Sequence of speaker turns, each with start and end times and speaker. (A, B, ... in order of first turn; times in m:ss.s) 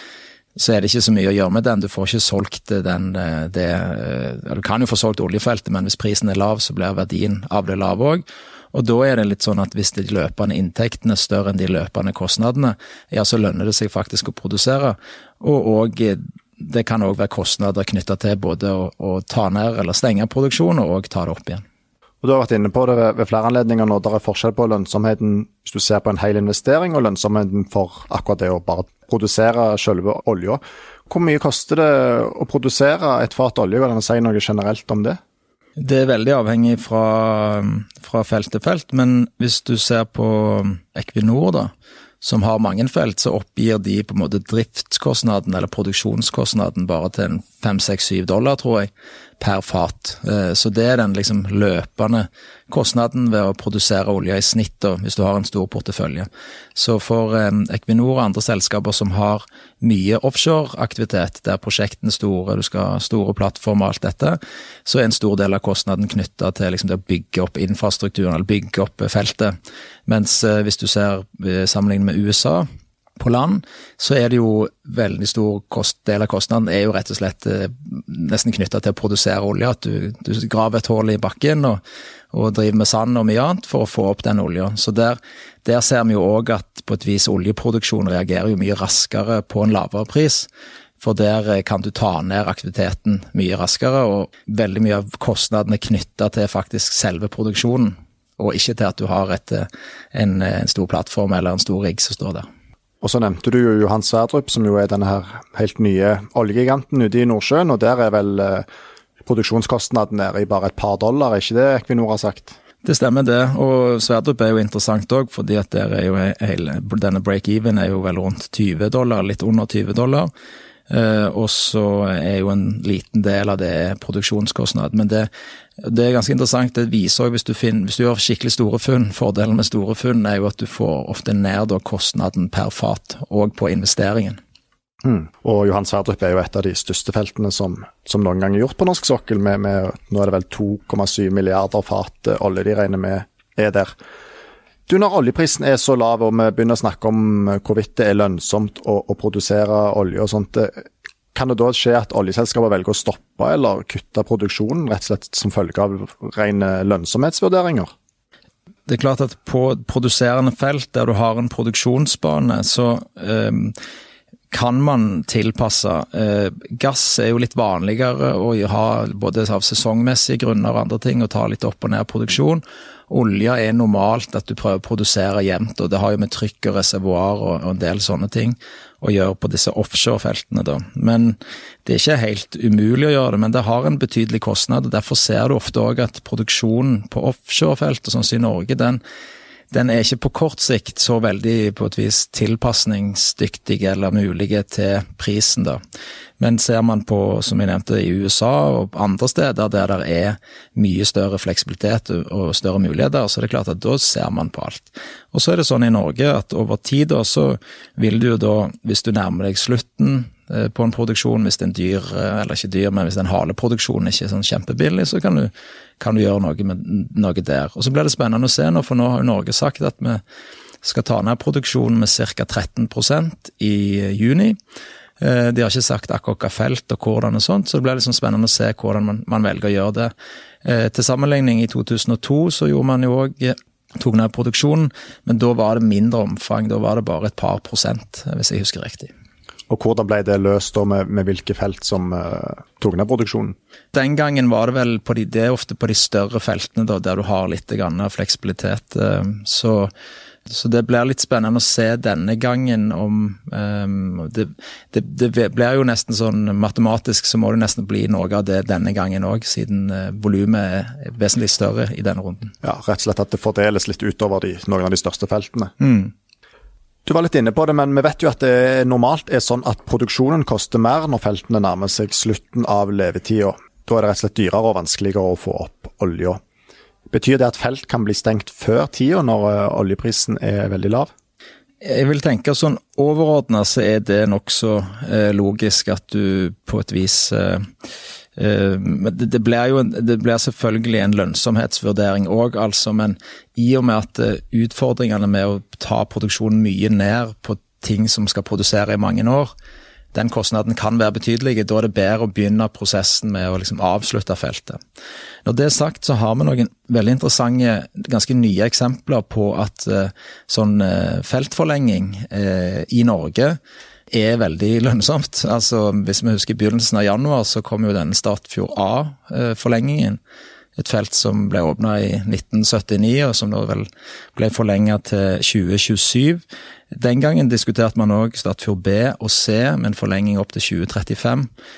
0:00.6-0:21.6 A
0:22.2-0:35.2 B
0:35.8-1:09.6 A
1:10.1-1:12.7 A
1:13.2-1:21.8 A
1:22.3-1:30.5 A
1:31.0-1:42.5 A
1:43.0-1:48.7 B
1:49.2-1:52.6 B
1:52.8-2:00.3 A
2:00.9-2:05.3 A
2:05.8-2:14.4 A
2:15.0-2:24.0 B
2:24.9-2:37.9 B
2:38.9-2:43.8 A
2:44.5-3:09.0 A
3:09.7-3:15.8 A
3:16.4-3:40.2 A
3:40.8-3:44.6 A
3:45.2-3:50.1 A
3:50.6-3:59.1 A
3:59.7-4:03.6 B
4:03.9-4:09.9 A
4:10.5-4:22.5 A
4:22.6-4:25.7 B
4:25.8-4:26.1 A
4:27.1-4:36.4 B
4:37.1-4:41.1 B
4:41.8-4:47.6 A
4:48.4-4:59.5 A
5:00.1-5:04.8 A
5:05.5-5:13.6 A
5:14.1-5:20.2 A
5:20.8-5:31.5 A